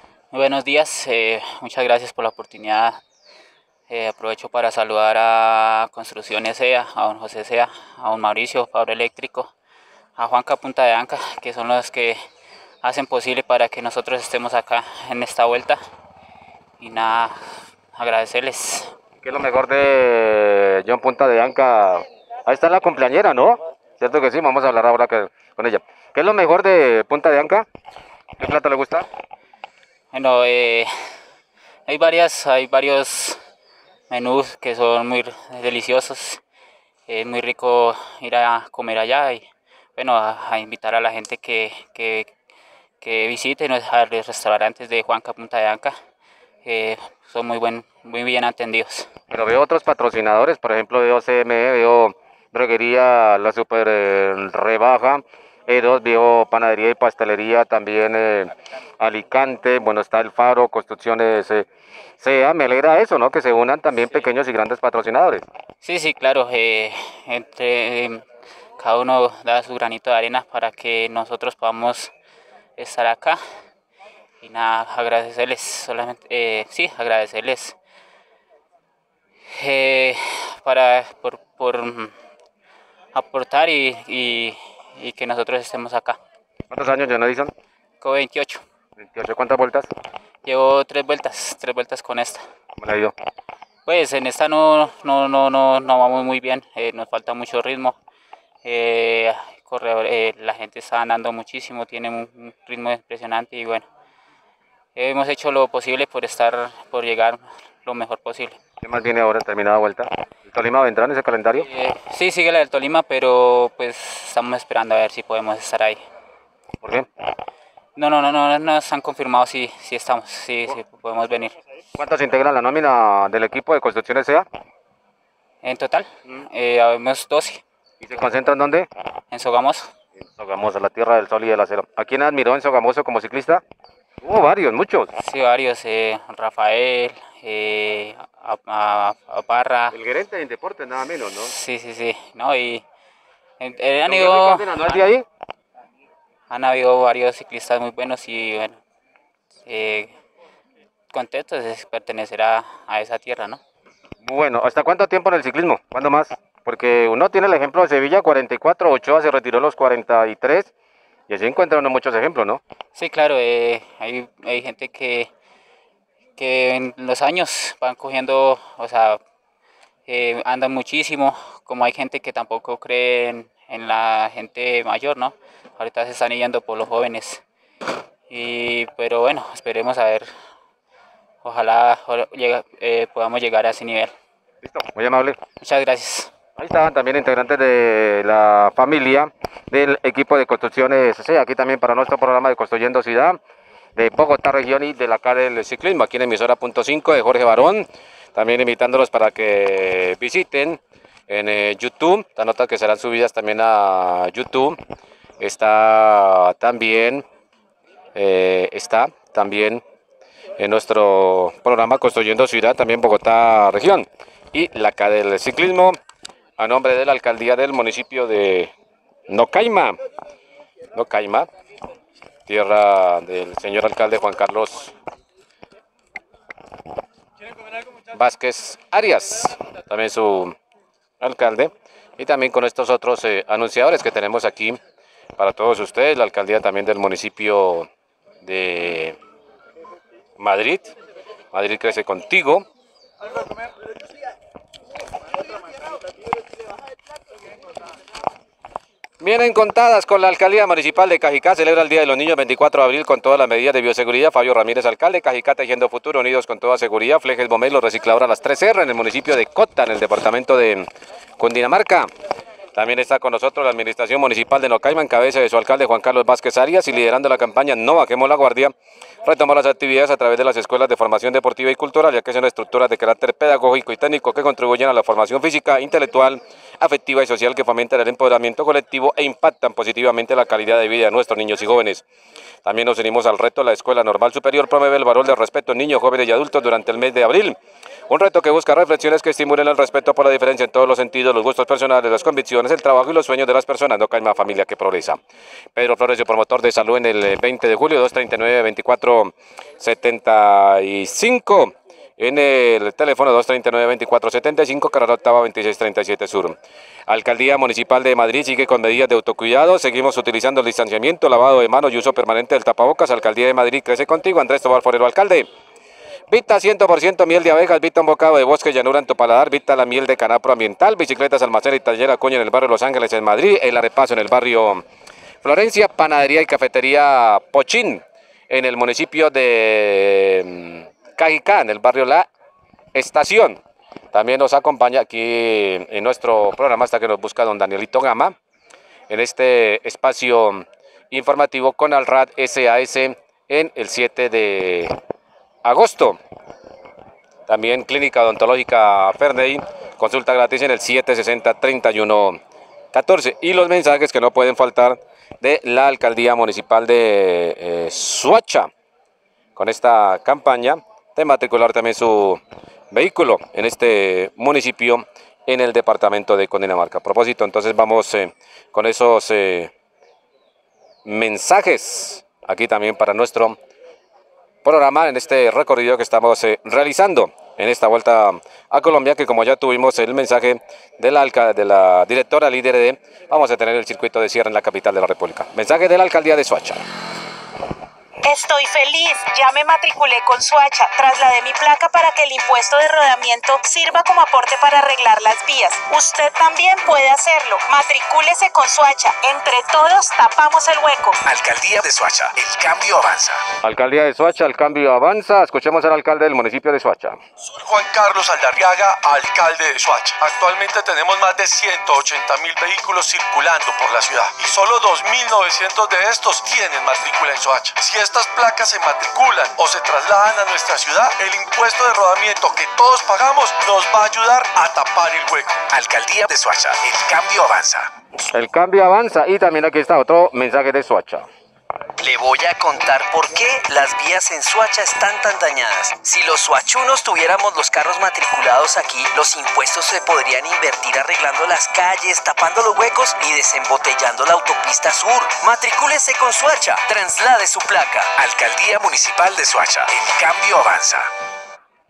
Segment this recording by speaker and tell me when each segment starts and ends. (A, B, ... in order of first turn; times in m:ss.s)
0:00.3-0:03.0 A
0:03.9-0:09.5 A
0:10.2-0:12.1 A
0:12.8-0:15.8 A
0:16.8-0:17.4 A
0:18.0-0:18.9 A
0:19.2-0:27.6 B
0:28.4-0:29.0 B
0:30.1-0:30.9 A
0:31.9-0:33.3 A
0:34.1-0:36.4 A
0:37.1-0:39.4 A
0:40.0-0:42.3 A
0:43.0-0:45.9 A
0:46.6-0:49.1 A
0:49.3-1:01.6 B
1:02.2-1:05.4 B
1:05.8-1:08.2 A
1:08.8-1:12.1 A
1:12.8-1:13.4 A
1:14.4-1:17.7 A
1:19.6-1:22.1 A
1:23.2-1:26.2 A
1:26.7-1:27.5 B
1:28.0-1:28.6 A
1:29.0-1:29.9 B
1:30.5-1:32.4 A
1:32.8-1:33.1 B
1:33.9-1:37.9 A
1:38.6-1:43.8 A
1:45.0-1:48.6 A
1:48.8-1:51.7 B
1:51.6-1:56.0 A
1:56.8-1:57.1 B
1:58.0-2:01.5 A
2:02.0-2:04.4 B
2:05.6-2:07.6 A
2:08.0-2:08.9 B
2:09.3-2:09.9 A
2:10.2-2:13.6 B
2:14.2-2:15.1 B
2:15.2-2:19.9 A
2:19.9-2:21.5 B
2:21.5-2:22.8 A
2:23.6-2:24.7 A
2:24.0-2:25.2 B
2:26.5-2:28.8 A
2:29.6-2:30.1 A
2:31.1-2:33.6 A
2:34.2-2:40.7 B
2:41.3-2:42.6 B
2:43.0-2:45.3 A
2:46.4-2:49.2 A
2:50.1-2:57.4 A
2:58.3-3:00.3 A
3:01.4-3:04.1 A
3:04.6-3:05.4 B
3:05.6-3:06.3 A
3:06.6-3:13.4 B
3:14.0-3:24.8 B
3:25.4-3:27.2 B
3:28.1-3:29.8 B
3:30.6-3:36.0 B
3:36.6-3:38.7 B
3:39.3-3:40.0 B
3:40.9-3:41.5 B
3:42.4-3:44.9 B
3:48.1-3:50.5 B
3:51.2-3:54.8 B
3:55.4-3:57.9 B
3:58.4-3:59.2 B
4:00.4-4:00.9 B
4:01.5-4:02.6 B
4:09.2-4:20.9 B
4:21.4-4:22.1 B
4:22.7-4:28.7 B
4:29.2-4:42.0 B
4:42.6-4:47.6 B
4:48.1-4:55.2 B
4:55.7-5:06.6 B
5:07.1-5:15.5 B
5:16.3-5:24.8 B
5:25.4-5:32.2 B
5:32.9-5:33.6 B
5:34.1-5:38.3 B
5:39.1-5:44.9 B
5:45.6-5:46.2 B
5:47.5-5:52.4 B
5:52.9-5:58.7 B
5:59.6-6:09.7 B
6:11.0-6:13.6 B
6:14.6-6:26.8 B
6:28.2-6:41.2 C
6:41.2-6:43.4 D
6:43.6-6:47.2 B
6:47.4-7:05.6 E
7:05.7-7:07.9 D
7:08.3-7:11.2 B
7:12.0-7:28.2 F
7:28.2-7:31.1 D